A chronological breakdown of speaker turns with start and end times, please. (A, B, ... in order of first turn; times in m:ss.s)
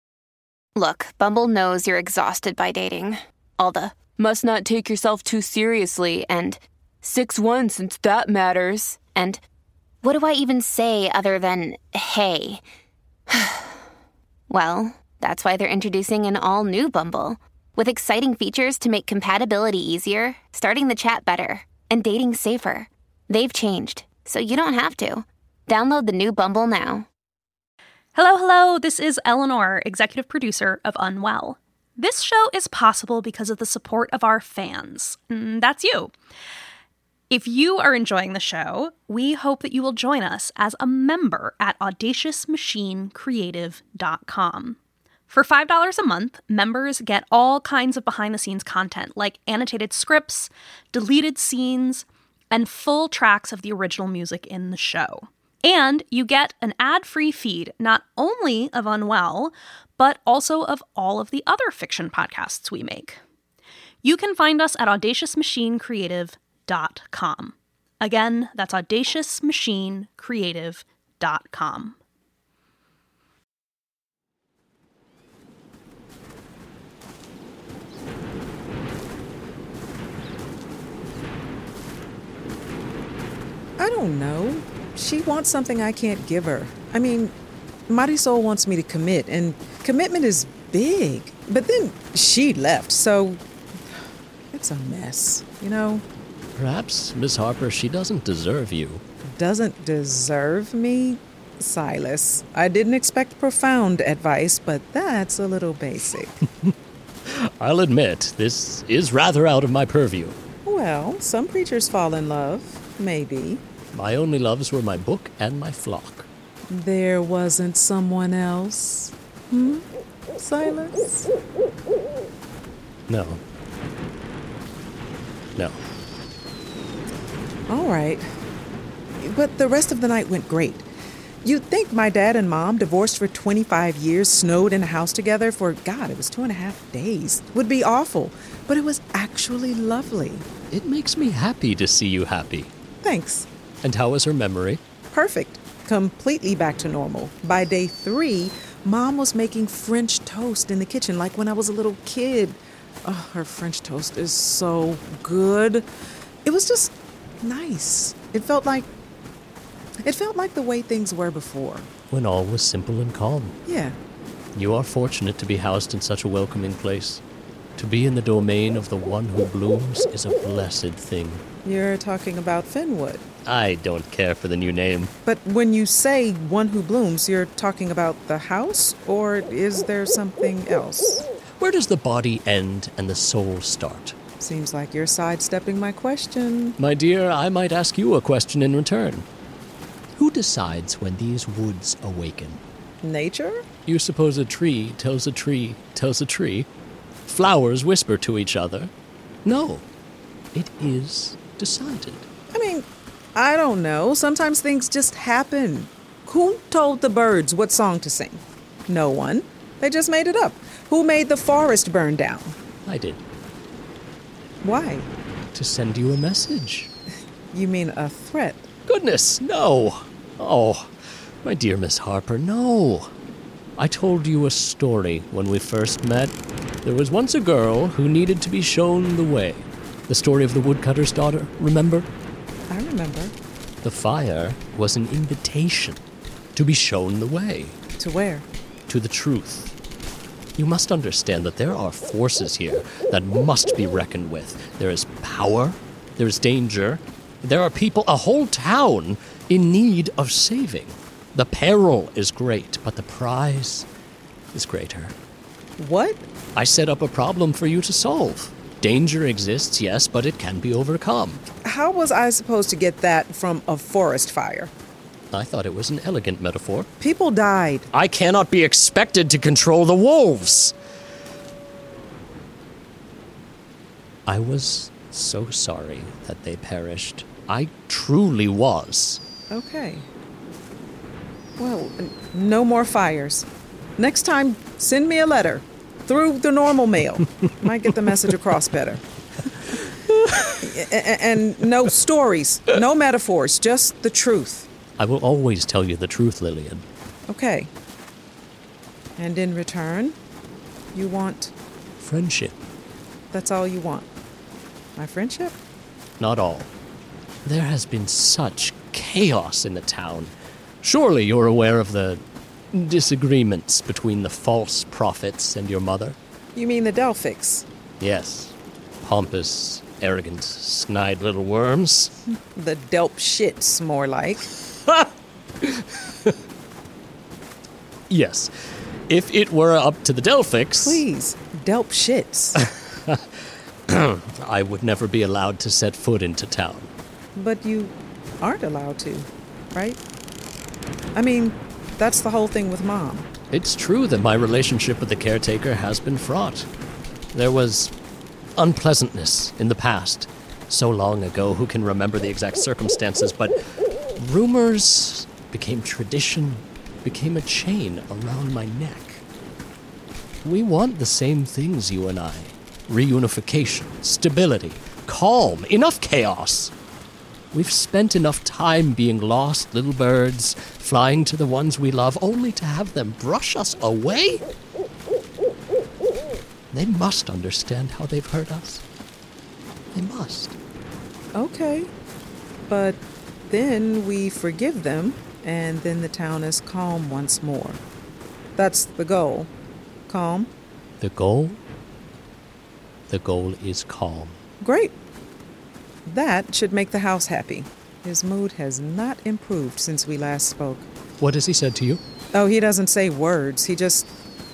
0:00.8-0:09.4 A
0:10.0-0:12.6 A
0:13.3-0:13.7 A
0:14.5-0:27.1 A
0:28.1-0:36.1 B
0:37.3-1:03.2 B
1:04.0-1:12.0 B
1:23.8-1:27.3 C
1:27.9-1:36.0 C
1:36.6-1:39.0 D
1:39.3-1:46.4 C
1:47.2-1:50.4 D
1:50.6-1:53.6 C
1:53.9-1:56.3 D
1:56.7-1:59.8 C
2:00.4-2:01.3 C
2:03.1-2:03.4 D
2:07.7-2:08.2 C
2:09.2-2:10.9 C
2:11.4-2:20.4 C
2:20.7-2:22.7 D
2:23.0-2:23.5 C
2:23.8-2:24.8 D
2:25.1-2:35.9 C
2:36.4-2:38.9 C
2:40.0-2:41.9 C
2:42.1-2:43.5 D
2:43.6-2:44.0 C
2:44.5-2:47.2 D
2:47.8-2:51.4 D
2:51.6-2:53.2 C
2:53.4-2:55.1 D
2:55.2-3:01.2 C
3:01.6-3:04.1 D
3:04.4-3:06.8 C
3:06.8-3:09.2 D
3:10.2-3:12.6 D
3:13.0-3:13.6 C
3:13.8-3:16.7 D
3:17.3-3:18.9 D
3:19.4-3:19.8 D
3:20.5-3:22.3 D
3:22.5-3:32.6 C
3:32.8-3:33.2 D
3:34.6-3:35.1 C
3:35.5-3:36.9 D
3:37.5-3:38.7 C
3:38.9-3:40.9 D
3:41.4-3:43.1 D
3:43.8-3:52.0 D
3:52.7-3:53.3 C
3:53.8-3:56.0 D
3:56.6-3:57.8 D
3:58.0-3:58.4 C
3:58.9-3:59.7 D
4:00.6-4:13.8 D
4:14.5-4:15.1 D
4:15.8-4:16.3 C
4:16.5-4:21.4 D
4:21.6-4:24.7 C
4:25.3-4:26.9 D
4:27.0-4:27.9 C
4:27.9-4:30.7 D
4:34.2-4:39.2 D
4:39.5-4:40.1 C
4:41.6-4:49.0 C
4:49.7-4:54.7 C
4:55.0-4:56.8 D
4:57.3-4:57.7 C
4:59.2-5:00.2 C
5:00.9-5:01.5 C
5:02.0-5:02.6 D
5:03.3-5:04.1 C
5:05.0-5:05.6 C
5:06.2-5:06.7 D
5:07.4-5:16.2 D
5:16.5-5:17.6 C
5:18.0-5:22.1 D
5:22.3-5:24.5 C
5:25.6-5:26.3 D
5:28.1-5:28.5 D
5:29.1-5:31.0 D
5:30.8-5:32.6 C
5:32.6-5:36.9 D
5:37.3-5:40.0 C
5:41.1-5:43.3 C
5:43.5-5:46.7 D
5:47.3-5:47.9 D
5:48.6-5:53.6 D
5:54.2-5:59.2 D
6:00.4-6:06.7 D
6:07.5-6:14.4 D
6:16.7-6:18.8 D
6:19.9-6:20.6 D
6:21.3-6:21.9 C
6:22.7-6:27.8 C
6:28.6-6:29.5 C
6:30.1-6:30.5 C
6:31.0-6:31.6 D
6:33.1-6:34.4 D
6:34.6-6:35.0 C
6:36.0-6:40.9 C
6:41.2-6:42.0 D
6:42.3-6:44.1 C